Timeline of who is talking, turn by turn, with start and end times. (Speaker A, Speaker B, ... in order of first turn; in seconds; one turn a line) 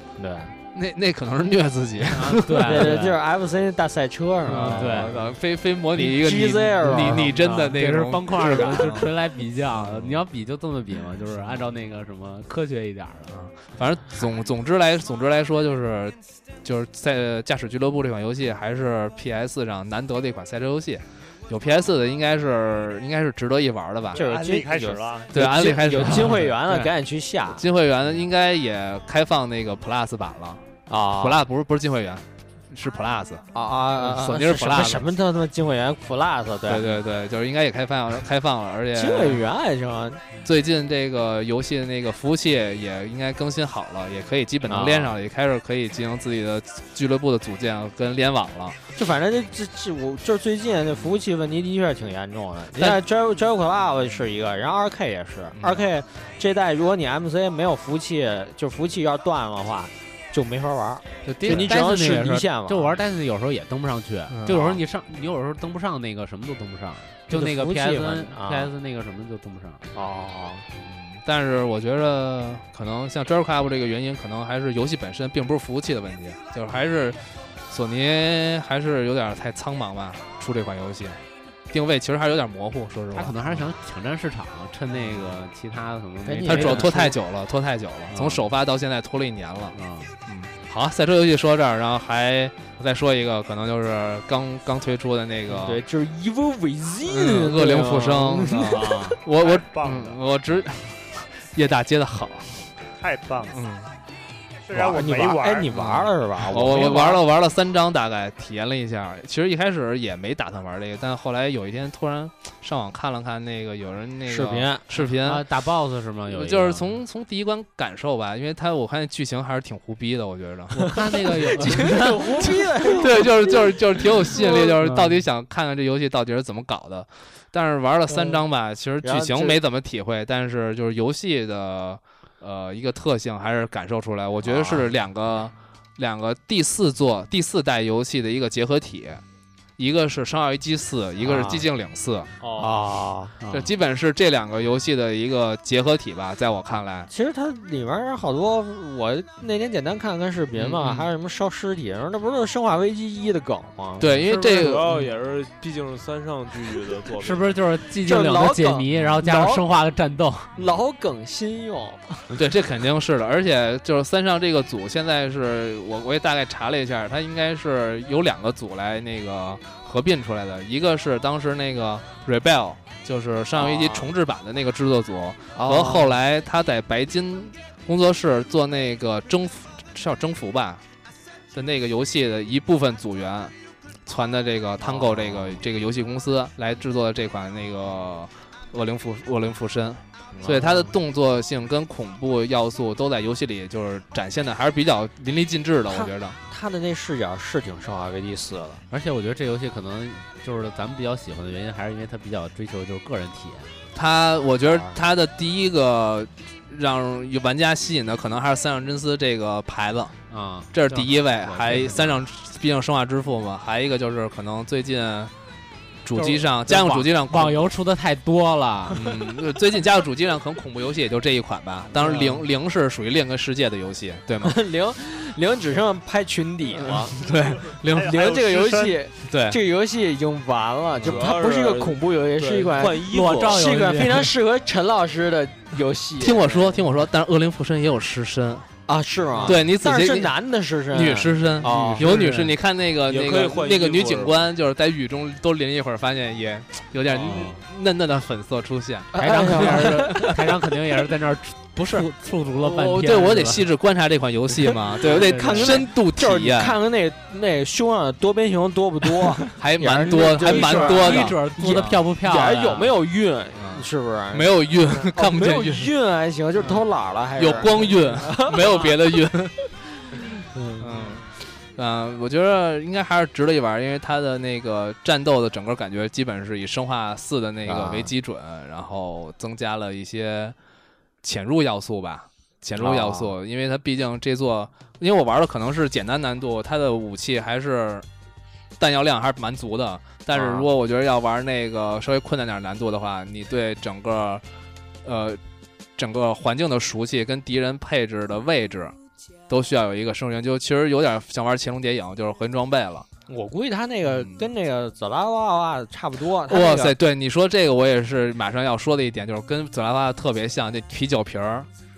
Speaker A: 0.2-0.6
Speaker B: 0.7-3.0
Speaker C: 2.1-3.2
Speaker A: 2.6-5.3
Speaker C: 4.5-5.2
Speaker B: 4.5-9.1
Speaker A: 5.9-7.5
Speaker C: 6.9-13.4
Speaker B: 9.7-10.2
Speaker B: 13.3-24.2
Speaker A: 24.1-27.7
Speaker D: 24.2-25.3
Speaker B: 25.3-26.5
Speaker C: 26.1-26.9
Speaker B: 27.5-30.6
Speaker A: 30.9-31.4
Speaker B: 31.1-33.4
Speaker A: 33.5-36.9
Speaker B: 34.0-35.1
Speaker B: 36.7-39.5
Speaker A: 38.9-40.4
Speaker B: 40.4-48.8
Speaker A: 44.6-45.2
Speaker A: 49.0-63.0
Speaker B: 55.6-55.9
Speaker B: 61.2-61.7
Speaker C: 61.4-69.9
Speaker B: 64.3-64.8
Speaker A: 67.3-68.7
Speaker A: 69.9-70.7
Speaker B: 70.8-81.2
Speaker B: 81.7-83.4
Speaker C: 83.1-87.1
Speaker B: 85.1-85.3
Speaker A: 86.2-87.1
Speaker B: 86.5-95.8
Speaker C: 88.1-88.5
Speaker C: 89.7-90.1
Speaker A: 95.5-99.2
Speaker B: 97.1-102.7
Speaker D: 99.4-100.2
Speaker D: 103.0-103.6
Speaker B: 103.5-103.9
Speaker D: 104.7-105.7
Speaker A: 104.7-107.2
Speaker B: 105.7-115.5
Speaker A: 114.3-114.9
Speaker C: 115.0-117.0
Speaker B: 116.3-121.9
Speaker C: 120.9-122.7
Speaker A: 121.5-124.8
Speaker B: 122.8-139.2
Speaker C: 124.8-125.2
Speaker A: 128.1-128.4
Speaker A: 129.0-129.6
Speaker A: 134.4-134.9
Speaker B: 139.8-142.3
Speaker A: 141.2-141.7
Speaker E: 142.4-142.8
Speaker A: 142.6-143.4
Speaker C: 143.4-143.7
Speaker B: 143.5-147.1
Speaker A: 147.1-154.1
Speaker B: 150.6-151.1
Speaker B: 154.0-154.9
Speaker C: 154.2-155.1
Speaker E: 154.2-157.6
Speaker C: 157.2-160.5
Speaker A: 158.0-159.6
Speaker B: 158.9-159.2
Speaker A: 160.6-162.3
Speaker B: 162.3-180.8
Speaker A: 173.6-174.1
Speaker A: 175.5-176.2
Speaker B: 181.5-183.5
Speaker B: 184.1-196.4
Speaker A: 184.8-185.6
Speaker A: 190.3-190.9
Speaker A: 195.9-198.8
Speaker C: 198.9-203.7
Speaker B: 203.9-210.2
Speaker A: 204.6-205.0
Speaker C: 210.3-212.2
Speaker B: 210.7-215.3
Speaker B: 216.1-217.7
Speaker C: 216.2-219.2
Speaker B: 218.9-224.6
Speaker C: 221.9-222.5
Speaker A: 224.4-227.2
Speaker B: 226.8-228.2
Speaker D: 227.8-229.0
Speaker A: 227.9-236.8
Speaker B: 229.2-229.6
Speaker E: 231.0-233.7
Speaker C: 233.0-234.3
Speaker B: 236.2-238.7
Speaker A: 238.9-242.2
Speaker B: 239.4-240.3
Speaker B: 240.9-250.4
Speaker E: 241.6-242.3
Speaker C: 241.7-242.5
Speaker E: 243.1-244.5
Speaker C: 247.1-247.6
Speaker A: 249.1-250.4
Speaker C: 249.2-253.7
Speaker B: 251.8-256.8
Speaker A: 255.0-268.8
Speaker C: 255.0-255.8
Speaker B: 259.5-262.0
Speaker C: 260.1-262.9
Speaker B: 264.3-265.9
Speaker B: 267.4-270.2
Speaker A: 270.6-271.1
Speaker B: 270.8-280.6
Speaker A: 277.6-278.1
Speaker B: 281.2-288.1
Speaker A: 282.8-283.3
Speaker B: 288.8-294.4
Speaker A: 290.3-290.7
Speaker B: 295.0-295.4
Speaker B: 296.0-298.9
Speaker B: 299.5-303.1
Speaker A: 303.3-306.9
Speaker B: 304.1-304.4
Speaker B: 306.5-311.7